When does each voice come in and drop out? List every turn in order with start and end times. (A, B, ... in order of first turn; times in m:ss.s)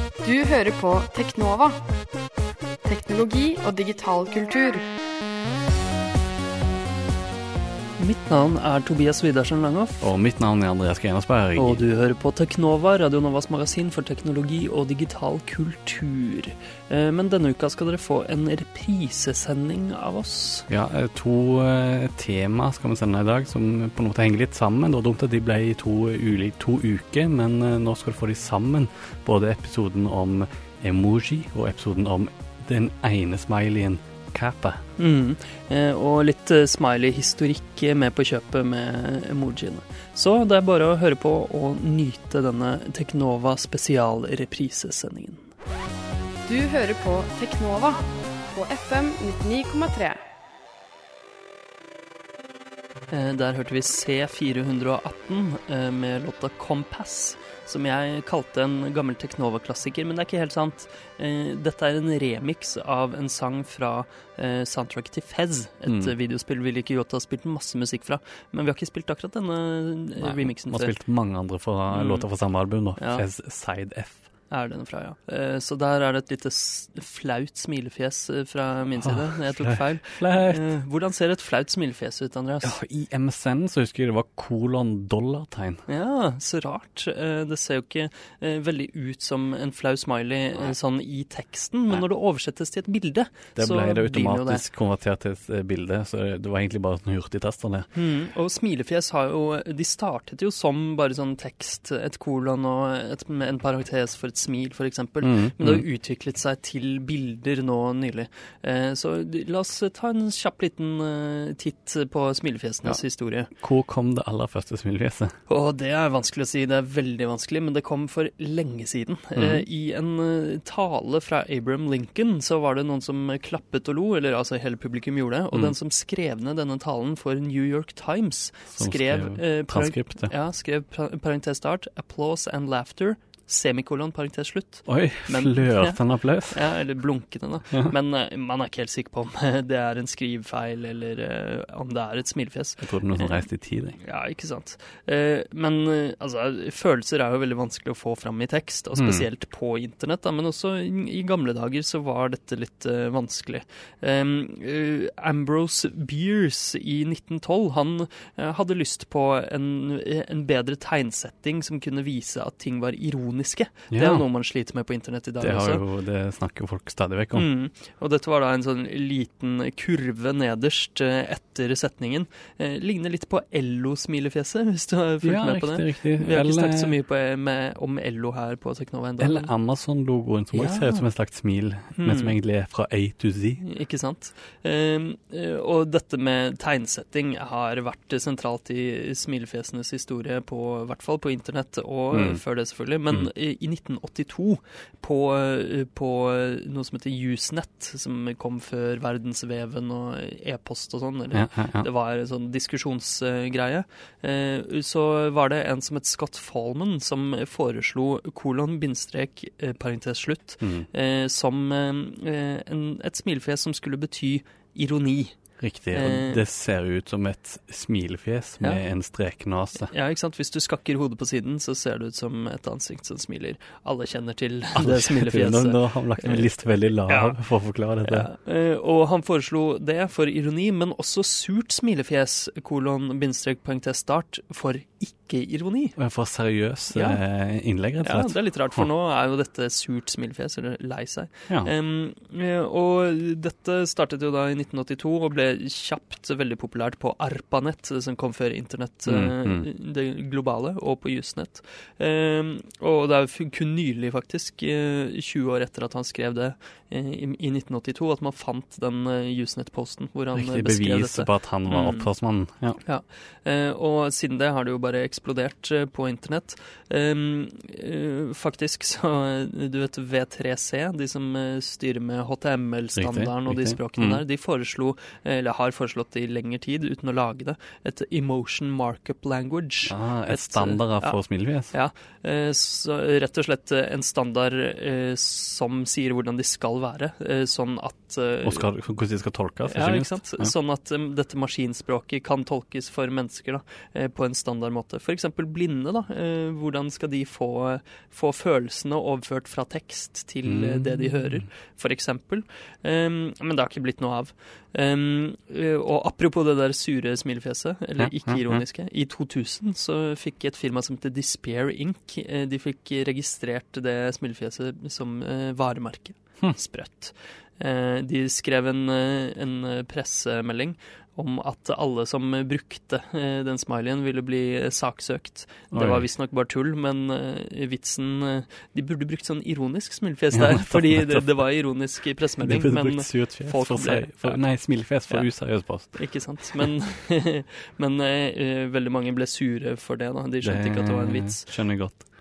0:00.2-0:01.8 A
0:02.8-0:04.8 A
0:08.0-0:10.0 B
0:10.0-0:11.8 C
0:11.6-0:20.7 B
0:20.7-0:34.8 C
0:35.0-0:45.5 B
0:46.5-0:50.2 A
0:53.1-1:10.9 B
1:05.8-1:06.1 C
1:10.2-1:14.3 C
1:11.9-1:12.2 B
1:13.0-1:13.2 B
1:14.5-1:22.8 B
1:19.0-1:20.7 C
1:22.6-1:25.8 C
1:25.9-1:34.6 B
1:33.6-1:37.9 C
1:37.9-1:53.5 B
1:45.2-1:45.8 C
1:53.6-1:55.3 C
1:55.5-2:23.4 B
1:59.4-1:59.6 C
2:08.7-2:10.3 C
2:14.9-2:16.7 C
2:22.8-2:24.0 C
2:24.0-2:45.8 B
2:29.0-2:29.3 C
2:43.9-2:44.2 C
2:45.4-2:47.4 C
2:47.3-2:59.5 B
2:55.2-2:56.9 C
2:59.2-3:03.6 C
3:00.5-3:01.0 B
3:02.0-3:02.4 B
3:03.6-3:35.4 B
3:12.1-3:12.4 C
3:21.3-3:21.9 C
3:30.6-3:30.9 C
3:35.6-3:39.9 C
3:35.9-3:36.4 B
3:39.9-3:46.5 B
3:44.7-3:48.3 C
3:47.1-3:47.4 B
3:48.0-3:56.0 B
3:56.0-3:58.9 C
3:56.9-3:57.2 B
3:58.0-4:22.1 B
4:09.0-4:09.7 C
4:20.3-4:22.8 C
4:22.8-4:41.2 B
4:33.0-4:34.2 C
4:39.8-4:41.7 C
4:41.7-4:48.7 B
4:48.4-4:50.5 C
4:49.7-5:35.3 B
5:00.4-5:01.4 C
5:08.0-5:08.6 C
5:25.7-5:26.1 C
5:30.3-5:31.2 C
5:32.4-5:36.0 C
5:35.8-5:41.5 B
5:40.4-5:42.0 C